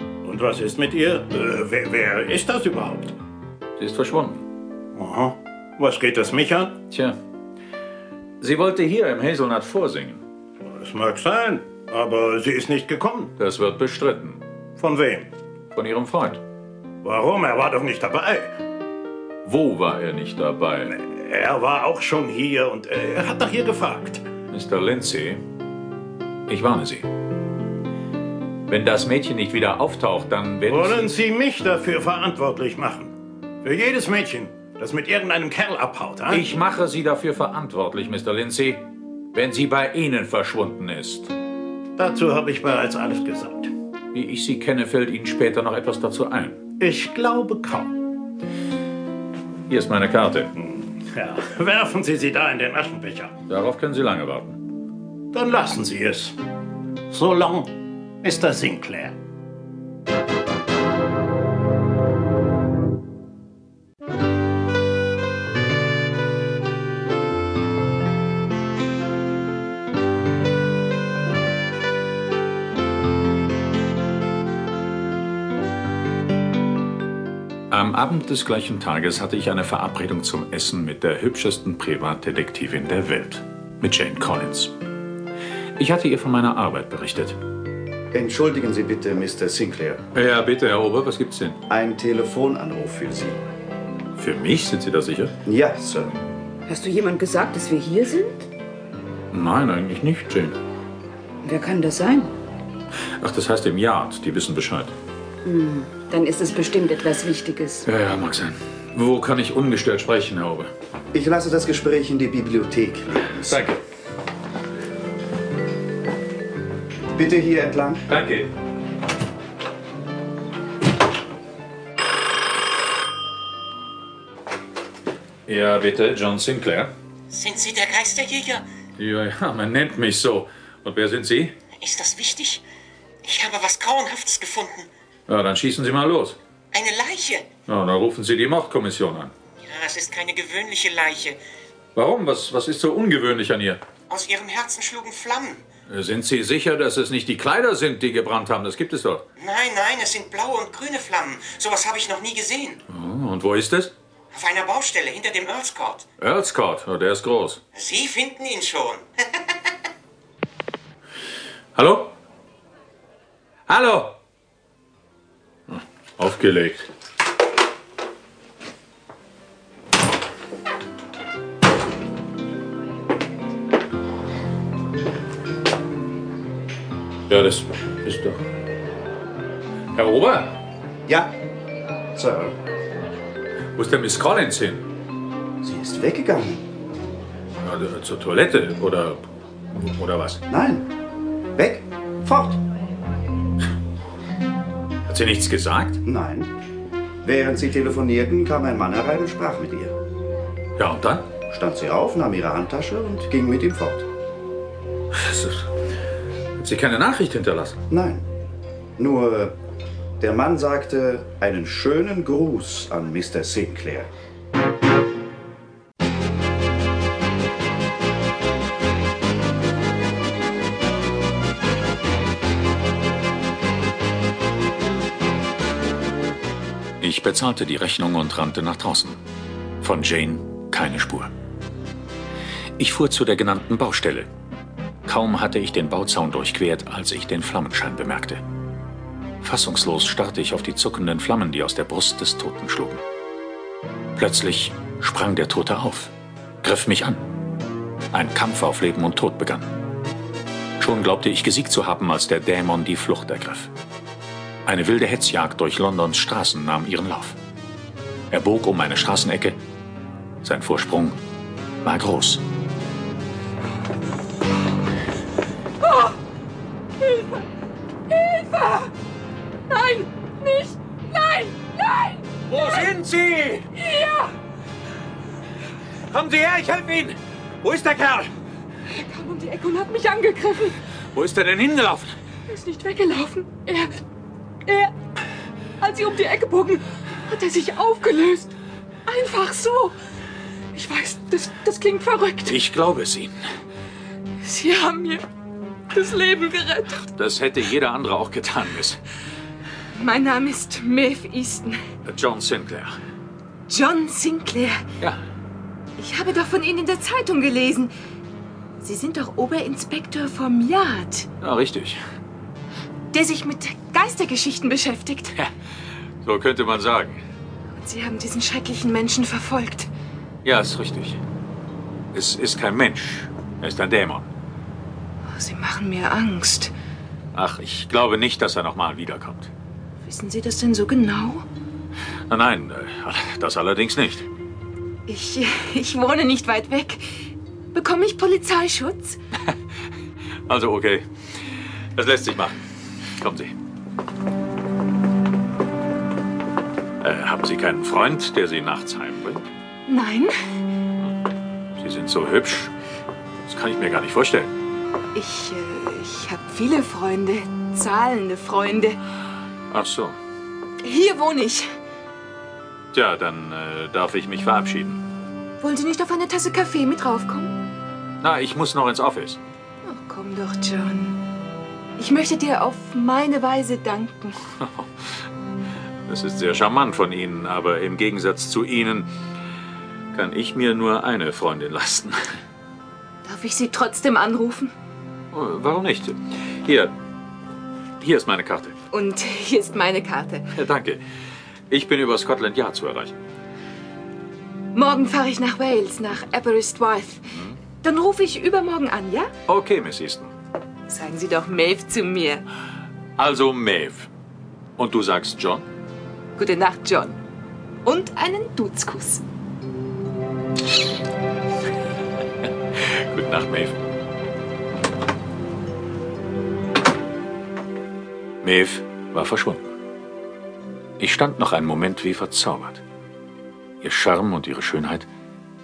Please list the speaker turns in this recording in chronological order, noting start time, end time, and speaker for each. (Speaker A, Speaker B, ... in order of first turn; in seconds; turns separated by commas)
Speaker A: 0.2-3.1, Speaker B: 3.8-4.4, Speaker A: 5.0-6.8, Speaker B: 6.9-7.2, Speaker B: 8.4-10.2, Speaker A: 10.7-13.3, Speaker B: 13.4-14.4, Speaker A: 14.8-15.3, Speaker B: 15.7-16.4, Speaker A: 17.0-18.5, Speaker B: 19.4-20.9, Speaker A: 20.9-24.2, Speaker B: 24.5-25.4, Speaker B: 26.5-27.1, Speaker B: 28.7-31.1, Speaker A: 30.7-33.1, Speaker A: 33.6-36.5, Speaker B: 36.3-41.3, Speaker A: 42.0-43.7, Speaker B: 44.1-46.6, Speaker A: 46.8-47.9, Speaker B: 49.7-50.5, Speaker A: 50.6-53.3, Speaker B: 53.5-54.6, Speaker A: 55.3-56.4, Speaker A: 57.1-59.1, Speaker B: 77.7-84.7, Speaker B: 85.8-87.4, Speaker C: 88.1-90.0, Speaker B: 90.1-91.6, Speaker C: 91.7-93.4, Speaker B: 94.2-95.3, Speaker C: 95.4-96.1, Speaker D: 96.7-98.4, Speaker B: 99.3-100.6, Speaker D: 101.4-102.3, Speaker B: 103.2-104.9, Speaker D: 105.4-107.8, Speaker B: 107.8-110.7, Speaker C: 111.1-113.6, Speaker B: 113.3-113.8, Speaker C: 117.1-118.0, Speaker B: 118.1-118.5, Speaker B: 125.5-126.9, Speaker E: 127.3-128.6, Speaker B: 129.0-131.6, Speaker E: 131.8-132.6, Speaker E: 133.2-134.9, Speaker B: 135.3-136.4, Speaker E: 136.7-137.4, Speaker B: 137.7-139.3, Speaker E: 139.6-141.4, Speaker B: 141.9-143.8, Speaker E: 144.1-145.6, Speaker B: 145.9-149.2, Speaker E: 149.4-152.8, Speaker B: 152.9-153.9, Speaker E: 154.3-156.0, Speaker B: 156.2-157.6, Speaker E: 157.8-159.0, Speaker B: 161.8-162.1, Speaker B: 163.7-164.2, Speaker B: 165.7-166.9, Speaker B: 177.3-178.4, Speaker B: 179.9-180.6, Speaker C: 181.1-181.3, Speaker C: 182.1-182.6, Speaker B: 183.8-184.9, Speaker C: 185.6-186.6, Speaker B: 187.6-189.2, Speaker B: 189.7-190.4, Speaker C: 190.5-190.8, Speaker C: 191.6-192.6, Speaker B: 195.1-196.0, Speaker C: 196.0-196.5, Speaker C: 197.2-199.9, Speaker B: 200.8-201.3, Speaker C: 201.5-204.1, Speaker B: 205.1-205.7, Speaker B: 206.6-207.8, Speaker C: 207.9-208.2, Speaker C: 209.0-209.6, Speaker C: 210.2-214.1, Speaker B: 227.0-229.2, Speaker B: 229.8-231.3, Speaker B: 232.8-234.3, Speaker B: 235.1-238.4, Speaker B: 239.4-243.0, Speaker B: 244.2-247.2, Speaker B: 248.1-249.7, Speaker B: 250.8-253.7, Speaker B: 254.7-257.4, Speaker B: 258.3-259.6, Speaker B: 260.4-261.2, Speaker B: 261.8-262.4, Speaker F: 267.0-267.3, Speaker F: 268.1-268.9, Speaker F: 269.7-272.3, Speaker B: 272.5-273.7, Speaker F: 273.7-274.3, Speaker B: 276.1-278.3, Speaker F: 278.9-280.8, Speaker B: 281.1-282.1, Speaker F: 282.5-284.0, Speaker F: 285.8-288.5, Speaker F: 289.1-289.9, Speaker F: 290.7-292.6, Speaker B: 292.4-293.4, Speaker F: 294.4-295.2, Speaker F: 295.9-297.1, Speaker B: 297.1-299.0, Speaker F: 299.9-301.7, Speaker B: 302.1-302.9, Speaker F: 303.7-304.7, Speaker F: 306.0-307.9, Speaker F: 308.8-311.2, Speaker B: 311.4-312.0, Speaker F: 313.1-315.3, Speaker B: 316.2-317.2, Speaker F: 317.8-319.9, Speaker B: 320.4-321.2, Speaker B: 322.1-324.3, Speaker F: 325.3-326.7, Speaker B: 327.3-329.5, Speaker F: 330.0-331.4, Speaker B: 332.3-334.3, Speaker F: 335.1-336.9, Speaker F: 337.8-339.1, Speaker B: 340.5-341.1, Speaker B: 341.9-342.6, Speaker B: 343.2-343.5, Speaker B: 347.0-349.4, Speaker F: 349.9-350.3, Speaker B: 351.8-352.7, Speaker B: 353.4-354.5, Speaker F: 355.2-359.0, Speaker B: 359.7-360.1, Speaker F: 360.9-361.6, Speaker B: 362.9-365.0, Speaker F: 365.6-367.5, Speaker B: 368.2-369.4, Speaker F: 369.9-370.9, Speaker F: 372.0-374.4, Speaker B: 374.6-375.0, Speaker B: 376.1-379.1, Speaker B: 380.1-382.3, Speaker F: 383.2-384.7, Speaker B: 385.3-386.9, Speaker B: 388.0-388.8, Speaker F: 388.9-390.5, Speaker B: 390.5-391.0, Speaker B: 391.7-393.1, Speaker F: 394.7-397.2, Speaker B: 397.3-397.6, Speaker F: 397.8-399.3, Speaker B: 399.5-400.3, Speaker F: 400.9-402.4, Speaker B: 403.2-404.1, Speaker B: 404.8-405.6, Speaker F: 406.4-407.1, Speaker F: 407.9-409.2, Speaker B: 412.8-413.8, Speaker B: 418.4-419.6, Speaker B: 421.0-422.8, Speaker B: 423.8-425.1